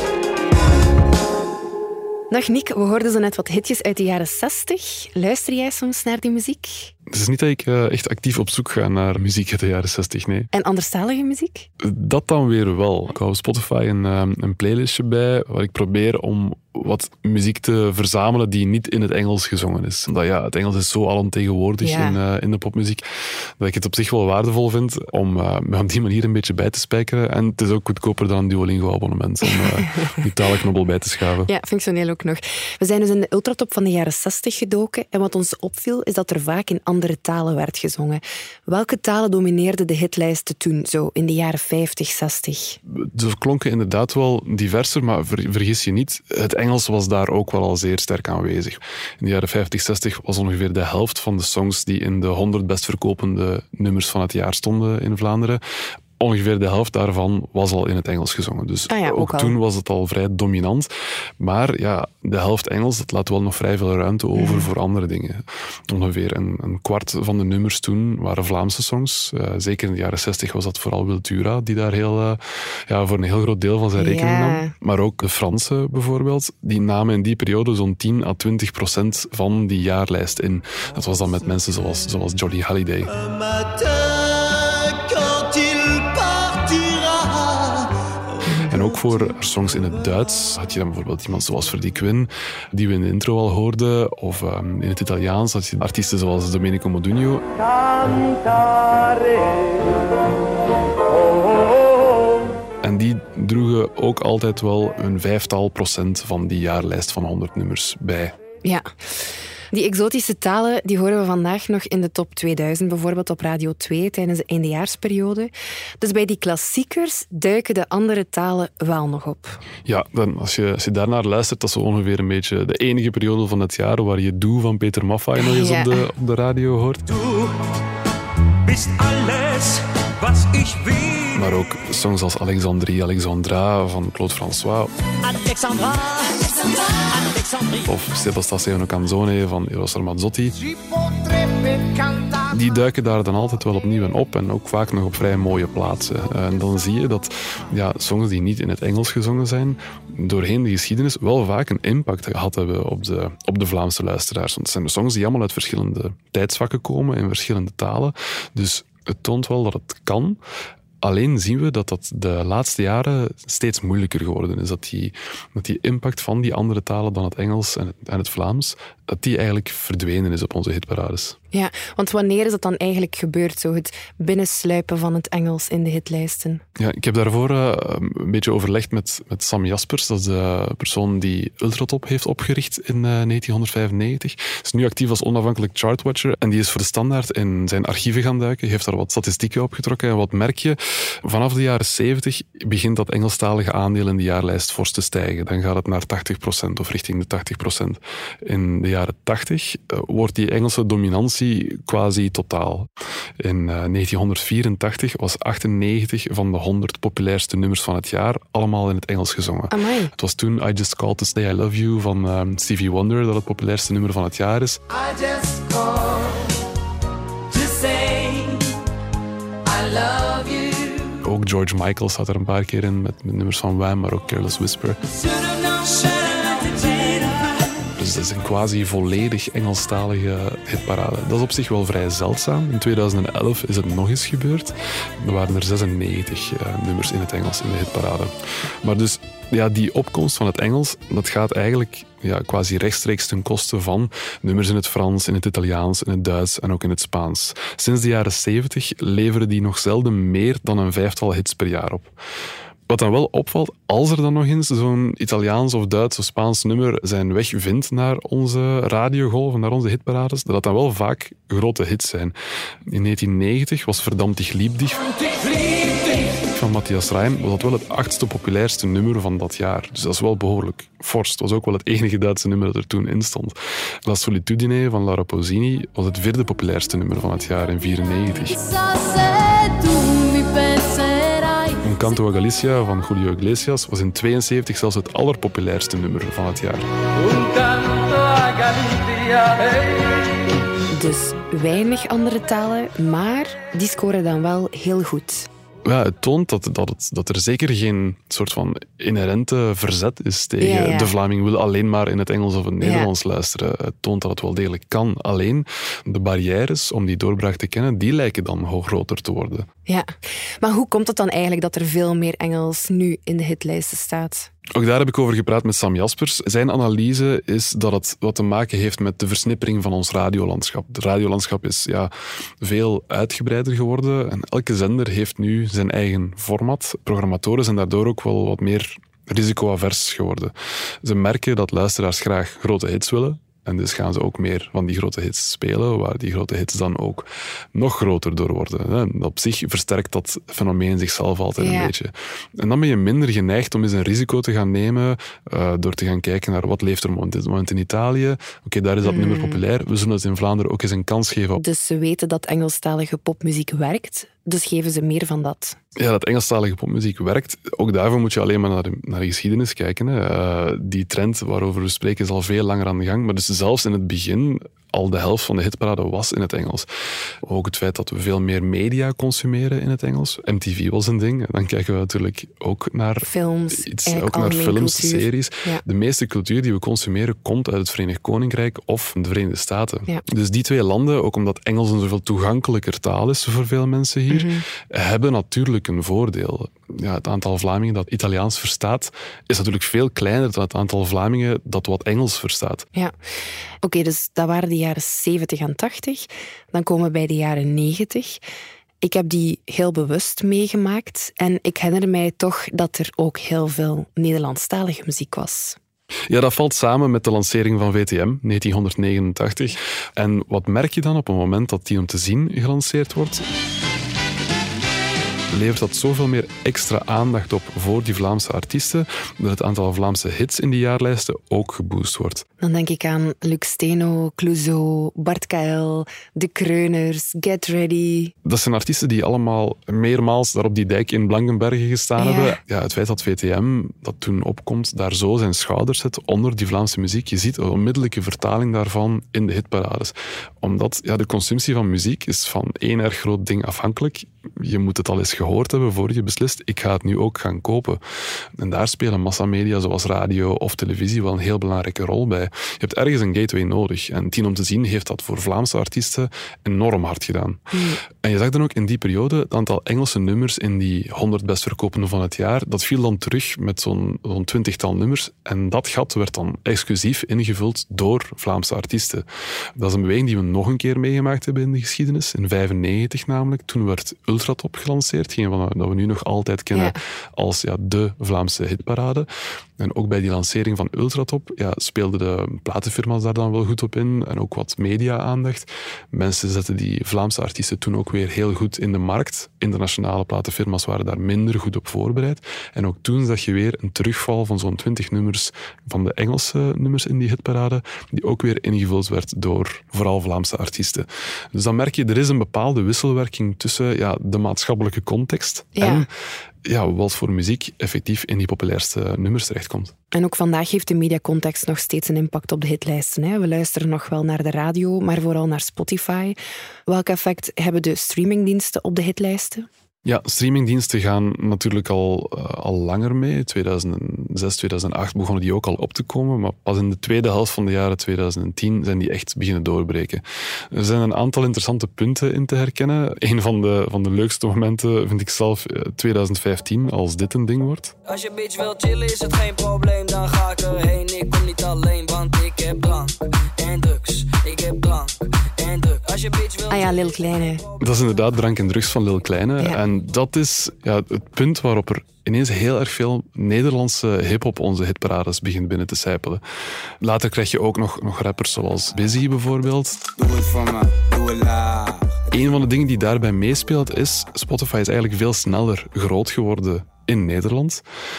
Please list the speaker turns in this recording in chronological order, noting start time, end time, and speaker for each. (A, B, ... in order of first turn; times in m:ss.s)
0:02.3-0:06.9 A
0:07.1-0:10.5 B
0:10.5-0:11.7 A
0:11.8-0:23.0 B
0:21.8-0:22.2 A
0:23.6-0:31.5 B
0:29.5-0:30.3 A
0:31.5-0:42.8 A
0:42.9-0:55.6 B
0:56.2-1:23.1 B
0:58.9-0:59.6 A
1:04.4-1:04.7 A
1:14.0-1:14.7 A
1:23.2-1:28.0 C
1:28.5-1:28.7 A
1:28.7-1:37.5 B
1:28.7-1:29.2 C
1:42.8-1:48.4 B
1:48.6-1:48.9 A
1:49.7-1:59.6 A
1:59.9-2:07.1 B
2:05.4-2:06.0 A
2:08.7-2:11.2 D
2:11.3-2:14.9 B
2:15.3-2:16.1 D
2:17.2-2:17.8 D
2:17.8-2:20.6 B
2:20.7-2:22.5 E
2:22.5-2:40.4 B
2:41.0-2:51.4 B
2:51.5-2:56.6 A
2:56.8-3:22.9 B
3:23.4-3:34.8 B
3:29.7-3:30.1 A
3:34.9-3:36.4 E
3:37.5-3:38.7 E
3:39.6-3:41.2 E
3:41.2-3:45.0 B
3:45.1-3:47.7 E
3:47.8-4:12.1 B
4:12.9-4:22.4 B
4:22.9-4:25.2 B
4:26.4-4:38.6 B
4:38.5-4:41.9 E
4:41.8-4:46.9 B
4:47.2-4:50.2 F
4:50.9-4:55.5 A
4:55.8-5:09.7 B
5:00.6-5:01.1 A
5:02.8-5:03.1 A
5:09.9-5:14.5 A
5:14.7-5:51.6 B
5:41.6-5:41.9 A
5:49.0-5:49.6 A
5:51.6-5:55.8 A
5:56.0-6:06.9 B
6:07.4-6:32.9 B
6:13.2-6:15.8 A
6:24.3-6:24.6 A
6:33.8-6:38.4 A
6:39.0-6:45.8 A
6:46.3-6:53.5 B
6:55.5-7:02.4 B
7:02.6-7:08.3 A
7:08.4-7:28.0 B
7:12.2-7:12.6 A
7:28.6-7:49.2 B
7:37.7-7:38.0 A
7:49.8-7:59.3 B
7:59.8-8:26.1 B
8:25.8-8:26.0 A
8:26.6-8:29.9 B
8:30.1-8:39.7 A
8:40.0-8:57.9 B
8:58.0-9:07.3 F
9:06.7-9:07.6 A
9:07.8-9:16.4 B
9:17.0-9:20.0 B
9:20.2-9:22.2 C
9:22.3-9:27.8 B